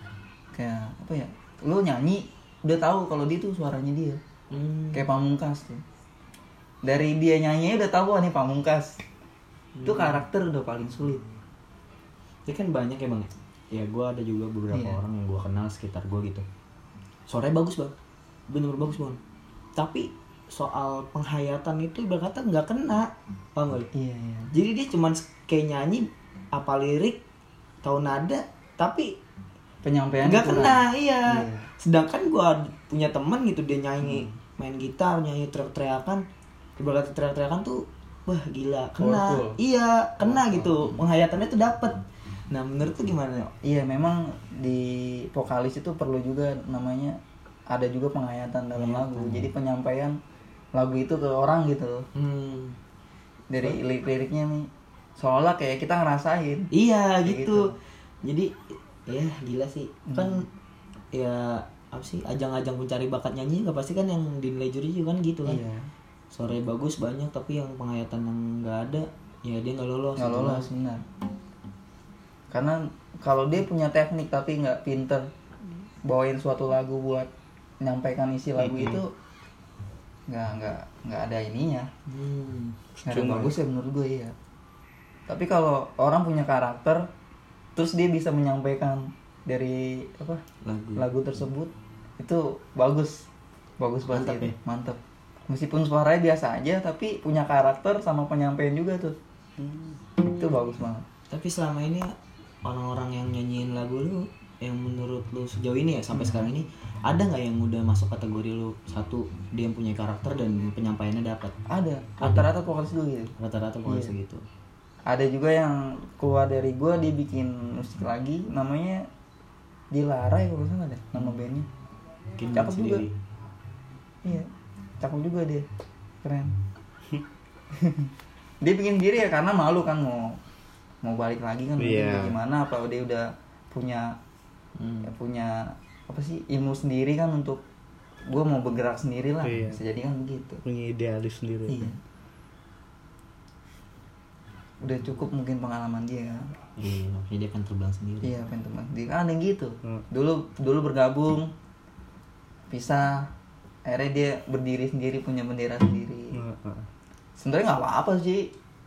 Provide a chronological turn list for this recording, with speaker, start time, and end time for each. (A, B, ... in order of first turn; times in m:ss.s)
0:00.5-0:04.2 A
0:04.5-0:05.0 B
0:04.9-0:05.8 A
0:06.8-0:09.0 A
0:09.8-0:10.2 B
0:09.8-0:11.2 A
0:12.4-0:16.4 B
0:14.7-0:15.0 A
0:17.3-0:17.9 B
0:18.5-0:19.2 B
0:19.8-0:23.9 B
0:23.9-0:24.5 A
0:24.5-0:27.2 B
0:27.8-0:29.1 B
0:29.8-0:31.7 A
0:30.2-0:36.2 B
0:34.0-0:34.3 A
0:36.8-0:42.0 B
0:39.0-0:39.6 A
0:40.2-0:41.0 A
0:42.5-0:43.5 B
0:43.6-0:47.2 A
0:47.7-0:50.2 A
0:48.7-0:49.5 B
0:50.7-0:52.0 A
0:52.1-0:52.8 B
0:53.5-0:56.7 A
0:56.7-0:57.7 B
0:57.2-0:57.7 A
0:58.2-1:00.4 B
1:00.1-1:00.4 A
1:01.1-1:05.6 B
1:05.4-1:05.9 A
1:06.3-1:10.7 B
1:10.2-1:11.0 A
1:12.5-1:15.3 A
1:16.0-1:17.3 A
1:17.8-1:19.1 A
1:18.6-1:19.0 C
1:20.3-1:21.9 A
1:22.1-1:22.8 B
1:23.0-1:23.5 C
1:23.0-1:24.3 A
1:25.3-1:27.0 A
1:27.8-1:30.4 A
1:30.6-1:31.1 B
1:31.0-1:33.2 A
1:33.8-1:39.2 A
1:34.1-1:34.5 B
1:39.6-1:40.0 C
1:40.4-1:41.0 A
1:41.3-1:42.1 B
1:42.6-1:51.5 B
1:46.1-1:46.5 A
1:51.7-1:53.3 A
1:52.2-1:52.5 B
1:53.4-1:54.4 B
1:53.8-1:54.1 A
1:55.1-1:59.1 A
1:59.9-2:01.7 A
2:02.4-2:03.1 B
2:02.5-2:03.0 A
2:05.0-2:05.6 A
2:06.2-2:06.5 A
2:07.7-2:08.1 A
2:08.6-2:10.4 A
2:11.0-2:14.1 A
2:11.8-2:12.4 C
2:14.8-2:15.1 B
2:15.0-2:17.6 A
2:18.3-2:20.6 A
2:19.4-2:19.8 C
2:20.6-2:21.9 C
2:21.7-2:22.0 A
2:24.8-2:26.5 A
2:26.8-2:28.3 B
2:28.2-2:31.5 A
2:32.7-2:33.3 A
2:33.8-2:36.4 A
2:36.3-2:36.9 C
2:37.4-2:38.5 A